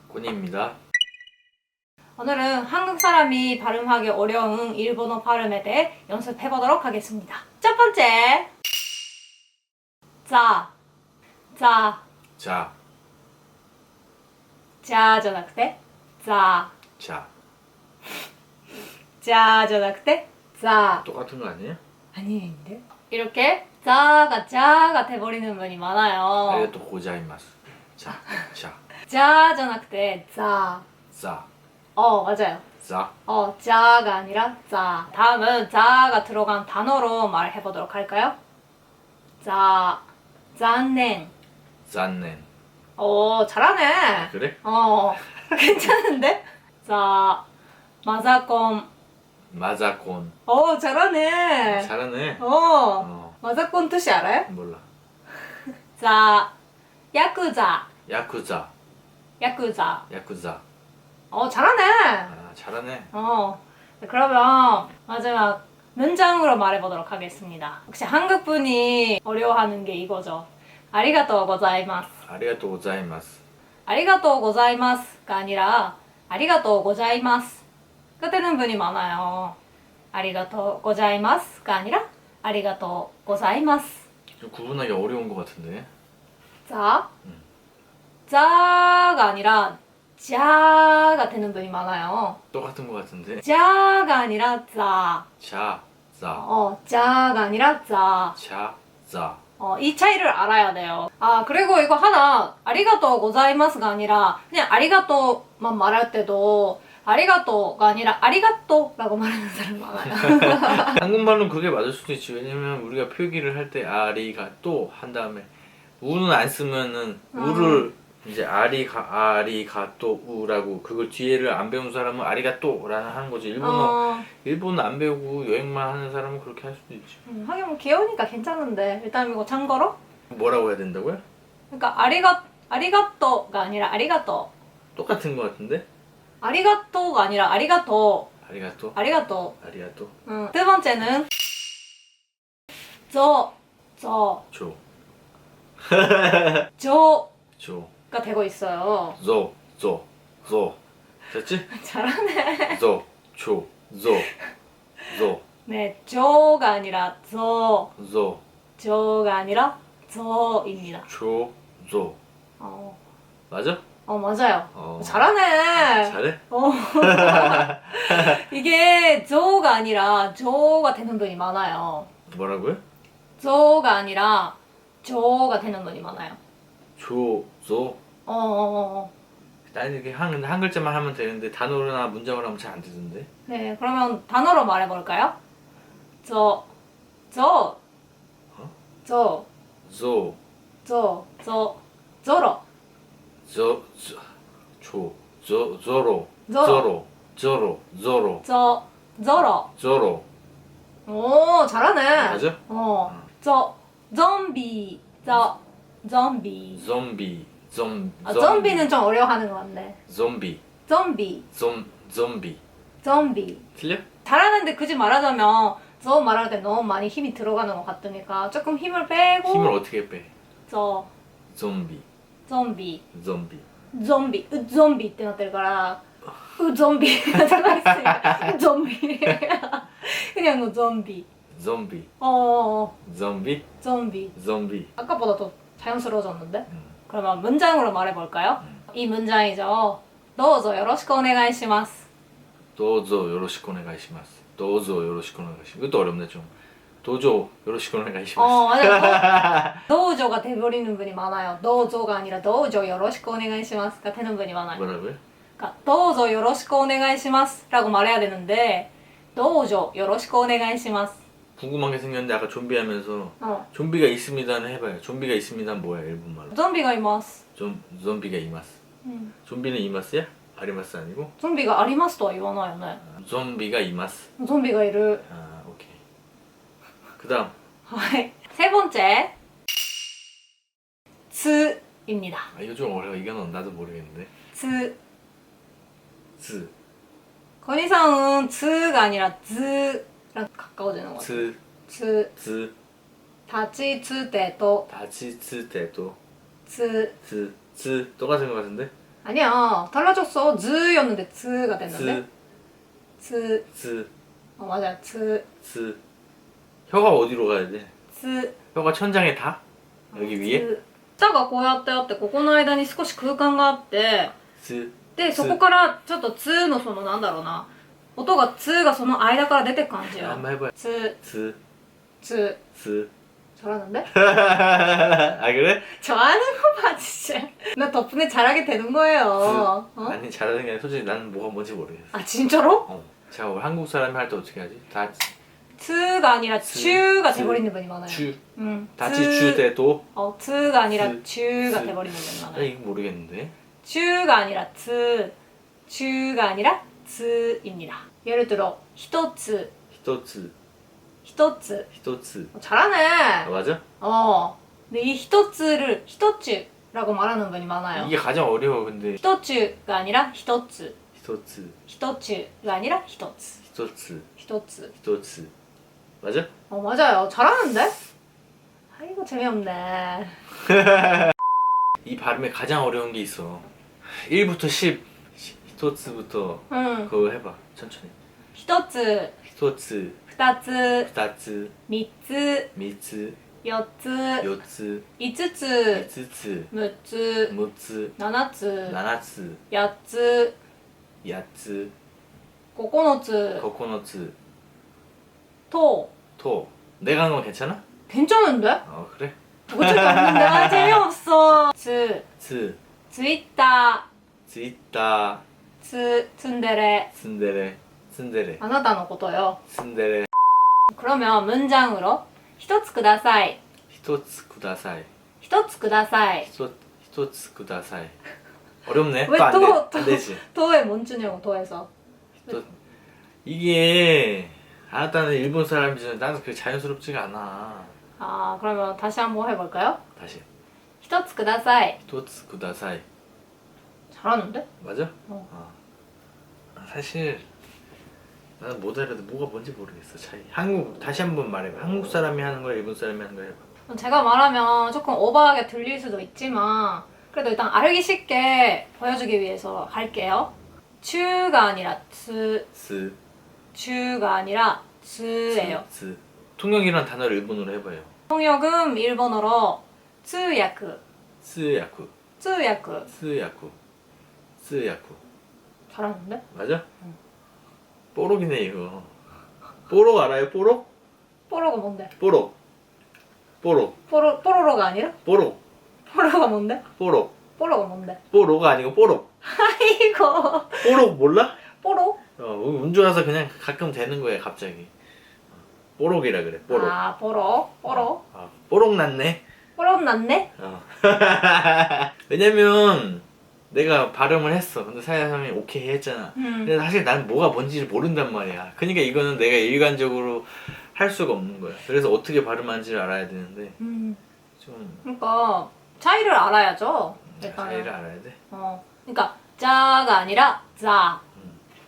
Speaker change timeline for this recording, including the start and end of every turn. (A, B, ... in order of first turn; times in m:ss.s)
0:00.1-0:00.8 A
0:02.2-0:08.5 B
0:10.3-0:10.7 B
0:11.5-0:12.0 B
0:12.4-0:12.7 A
0:14.8-0:16.7 B
0:17.0-0:17.3 A
0:19.2-0:21.0 B
0:21.0-0:21.8 A
0:22.1-0:26.7 B
0:26.5-0:28.8 A
0:28.2-0:28.5 B
0:29.1-0:30.8 B
0:31.1-0:31.5 A
0:32.0-0:32.7 B
0:32.8-0:33.1 A
0:33.3-0:38.4 B
0:39.4-0:40.0 B
0:40.6-0:41.3 B
0:41.9-0:42.5 A
0:43.0-0:47.4 B
0:44.2-0:44.6 A
0:48.0-0:48.9 B
0:49.5-0:50.4 A
0:50.5-0:54.5 B
0:51.6-0:52.5 A
0:53.0-0:53.4 A
0:54.5-0:54.8 A
0:56.0-0:56.5 B
0:57.1-0:57.9 B
0:58.1-0:58.7 A
0:59.4-1:00.1 B
1:00.1-1:00.6 A
1:01.3-1:02.3 B
1:02.3-1:03.1 A
1:03.1-1:12.2 B
1:12.2-1:13.4 A
1:13.9-1:17.6 B
1:18.2-1:19.6 B
1:20.1-1:24.1 B
1:24.4-1:25.9 A
1:26.7-1:27.1 B
1:28.3-1:32.4 B
1:32.5-1:33.4 A
1:33.4-1:35.3 B
1:35.4-1:36.5 A
1:36.4-1:38.4 B
1:38.4-1:39.4 A
1:39.6-1:51.0 B
1:50.0-1:55.5 A
1:56.0-2:07.2 A
1:57.3-1:57.9 B
2:03.6-2:04.3 B
2:07.3-2:10.0 B
2:10.3-2:11.2 A
2:11.7-2:14.5 B
2:15.0-2:15.9 A
2:16.4-2:18.3 B
2:18.4-2:19.0 A
2:19.0-2:19.6 B
2:19.6-2:20.1 A
2:20.3-2:21.3 B
2:23.1-2:24.4 B
2:24.5-2:24.8 A
2:25.8-2:26.7 A
2:26.8-2:27.3 B
2:27.6-2:27.9 A
2:28.1-2:29.2 B
2:29.2-2:30.8 A
2:31.3-2:31.7 A
2:31.7-2:32.8 B
2:32.7-2:34.3 A
2:35.1-2:35.4 A
2:35.7-2:37.9 B
2:38.0-2:38.4 A
2:38.8-2:41.1 B
2:41.1-2:42.2 A
2:42.6-2:43.0 B
2:43.5-2:43.8 A
2:44.1-2:52.1 B
2:44.7-2:46.4 A
2:46.9-2:48.4 A
2:52.3-2:52.8 A
2:53.4-2:56.4 B
2:57.0-2:58.0 A
2:58.3-2:59.1 B
2:59.7-3:03.3 A
3:03.5-3:05.4 B
3:06.2-3:06.7 B
3:07.3-3:07.8 B
3:09.0-3:09.5 B
3:09.8-3:10.4 A
3:10.8-3:12.6 B
3:13.4-3:18.4 A
3:16.5-3:16.9 B
3:18.4-3:19.7 B
3:19.8-3:20.3 A
3:21.1-3:26.8 B
3:22.2-3:22.6 A
3:26.8-3:28.9 A
3:28.2-3:30.0 B
3:30.1-3:30.6 A
3:30.9-3:31.5 B
3:31.5-3:32.6 A
3:33.0-3:33.6 B
3:33.8-3:34.0 A
3:34.2-3:39.8 B
3:39.4-3:40.3 A
3:40.7-3:41.1 B
3:41.5-3:42.0 A
3:42.5-3:43.0 B
3:43.1-3:43.6 A
3:43.9-3:46.0 B
3:46.6-3:51.3 B
3:47.3-3:48.6 A
3:51.5-3:52.1 A
3:52.2-3:53.0 B
3:53.0-3:53.7 A
3:53.8-3:54.3 B
3:54.4-3:54.9 A
3:55.0-4:02.1 B
4:02.8-4:06.5 A
4:07.0-4:09.8 A
4:08.4-4:14.8 B
4:14.7-4:15.2 A
4:15.6-4:21.2 B
4:21.6-4:26.6 A
4:23.4-4:23.7 B
4:26.5-4:27.4 B
4:27.6-4:28.8 A
4:29.0-4:29.3 B
4:29.5-4:31.3 A
4:31.4-4:33.0 B
4:33.0-4:34.3 A
4:34.4-4:35.2 B
4:35.3-4:36.0 A
4:37.2-4:37.5 A
4:37.9-4:39.3 B
4:41.3-4:42.5 B
4:42.5-4:44.3 A
4:44.5-4:45.0 B
4:46.4-4:46.7 A
4:47.6-4:52.3 B
4:51.2-4:51.6 A
4:52.4-4:52.7 A
4:53.5-4:54.9 B
4:54.9-4:56.2 A
4:56.7-4:57.2 B
4:57.2-4:58.9 A
4:59.2-5:02.2 B
5:01.9-5:02.3 A
5:03.2-5:03.6 B
5:03.7-5:04.1 A
5:04.6-5:05.5 B
5:05.6-5:06.0 A
5:06.9-5:07.9 A
5:08.1-5:08.6 B
5:08.7-5:09.6 A
5:10.1-5:10.7 A
5:10.1-5:14.3 B
5:14.6-5:15.6 A
5:15.2-5:21.2 B
5:20.1-5:21.6 A
5:22.2-5:22.6 B
5:22.7-5:23.1 A
5:23.6-5:24.1 B
5:24.1-5:25.9 A
5:25.9-5:30.2 B
5:29.4-5:32.2 A
5:32.1-5:32.9 B
5:32.9-5:35.3 A
5:35.8-5:42.7 B
5:36.6-5:38.4 A
5:39.0-5:40.1 A
5:40.9-5:43.5 A
5:43.8-5:45.3 B
5:45.9-5:49.7 B
5:49.9-5:50.5 A
5:51.2-5:51.9 B
5:51.9-5:52.5 A
5:52.5-5:53.5 B
5:53.4-5:53.8 A
5:54.0-5:58.1 B
5:57.9-5:59.2 A
5:59.2-6:01.0 B
6:01.2-6:01.8 A
6:01.9-6:03.6 B
6:03.6-6:04.3 A
6:04.4-6:04.9 B
6:05.0-6:05.5 A
6:06.2-6:06.5 A
6:06.7-6:08.0 B
6:08.9-6:10.4 B
6:10.6-6:11.3 A
6:12.0-6:18.1 A
6:16.7-6:17.1 B
6:18.6-6:19.4 B
6:19.5-6:20.2 A
6:20.3-6:21.1 B
6:21.0-6:21.7 A
6:21.9-6:22.7 B
6:22.8-6:23.4 A
6:23.6-6:24.5 B
6:24.4-6:25.0 A
6:25.2-6:26.1 B
6:25.9-6:26.7 A
6:26.7-6:27.5 B
6:27.5-6:28.1 A
6:28.2-6:29.0 B
6:28.9-6:29.6 A
6:29.7-6:30.6 B
6:31.2-6:31.9 A
6:32.8-6:33.7 B
6:33.6-6:34.4 A
6:35.7-6:36.1 B
6:36.4-6:37.8 A
6:38.1-6:38.8 B
6:38.8-6:41.1 A
6:39.7-6:42.3 B
6:42.4-6:42.8 A
6:43.1-6:44.1 B
6:44.5-6:45.4 A
6:45.8-6:47.1 B
6:47.1-6:48.6 A
6:48.6-6:49.6 B
6:49.7-6:50.3 A
6:50.9-6:53.6 B
6:53.9-6:55.1 A
6:55.4-6:56.5 B
6:56.5-6:58.2 A
6:58.8-7:00.4 A
6:59.3-7:01.9 B
7:03.4-7:08.0 A
7:08.2-7:10.0 B
7:10.2-7:10.5 A
7:11.0-7:12.0 B
7:12.1-7:13.0 A
7:14.1-7:14.7 B
7:14.8-7:15.8 A
7:16.8-7:17.5 A
7:18.6-7:23.6 A
7:23.9-7:30.5 B
7:31.0-7:32.7 B
7:32.7-7:33.2 A
7:33.7-7:35.8 B
7:35.5-7:38.1 A
7:38.3-7:41.0 B
7:41.4-7:42.1 A
7:42.4-7:43.1 B
7:43.1-7:43.8 A
7:44.6-7:45.2 A
7:45.9-7:46.4 B
7:46.5-7:46.8 A
7:48.2-7:49.1 A
7:49.9-7:50.9 A
7:51.5-7:52.1 B
7:52.2-7:52.5 A
7:53.6-7:54.0 A
7:54.1-7:55.2 B
7:55.2-7:55.6 A
7:56.1-7:56.8 B
7:57.0-7:57.4 A
7:57.6-7:58.2 B
7:58.3-7:59.3 A
7:59.4-8:01.0 B
8:00.8-8:01.6 A
8:01.8-8:02.2 B
8:02.4-8:04.9 A
8:05.6-8:07.0 A
8:06.7-8:08.2 B
8:07.9-8:09.4 A
8:09.8-8:10.5 B
8:10.6-8:23.8 A
8:16.4-8:16.7 B
8:23.8-8:24.2 B
8:24.6-8:25.0 A
8:25.0-8:27.9 B
8:27.4-8:28.4 A
8:28.5-8:31.2 B